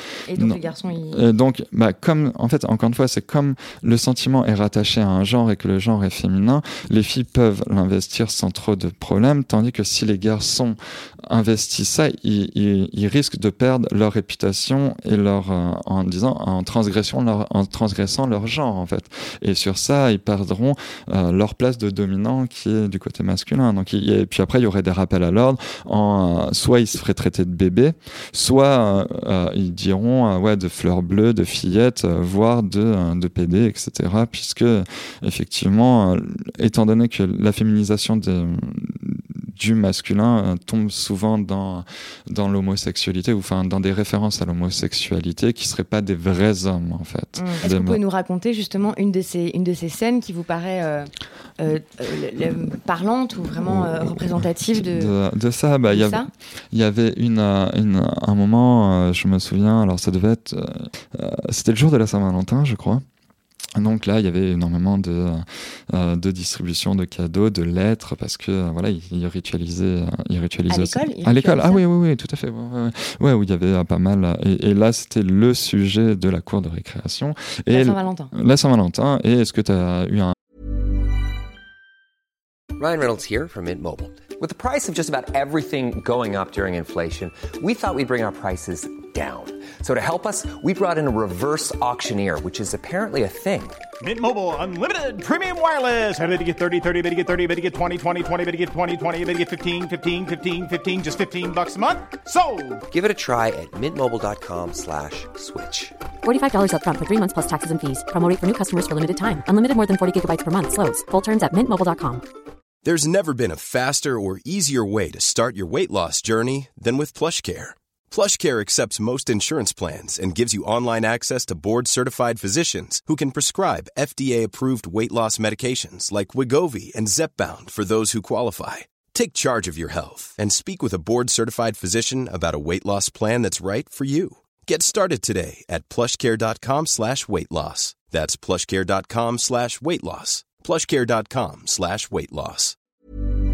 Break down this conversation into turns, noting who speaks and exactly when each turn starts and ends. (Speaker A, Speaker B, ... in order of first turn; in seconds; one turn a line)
Speaker A: 0.3-1.2
Speaker B: 0.3-48.0
Speaker A: 47.4-55.1
Speaker B: 53.6-63.0
Speaker A: 55.9-56.3
Speaker B: 63.8-80.4
Speaker A: 70.7-71.8
Speaker A: 77.7-78.3
Speaker C: 82.8-93.8
Speaker D: 94.0-102.8
Speaker C: 102.9-106.0
Speaker E: 106.2-112.2
Speaker F: 112.8-142.8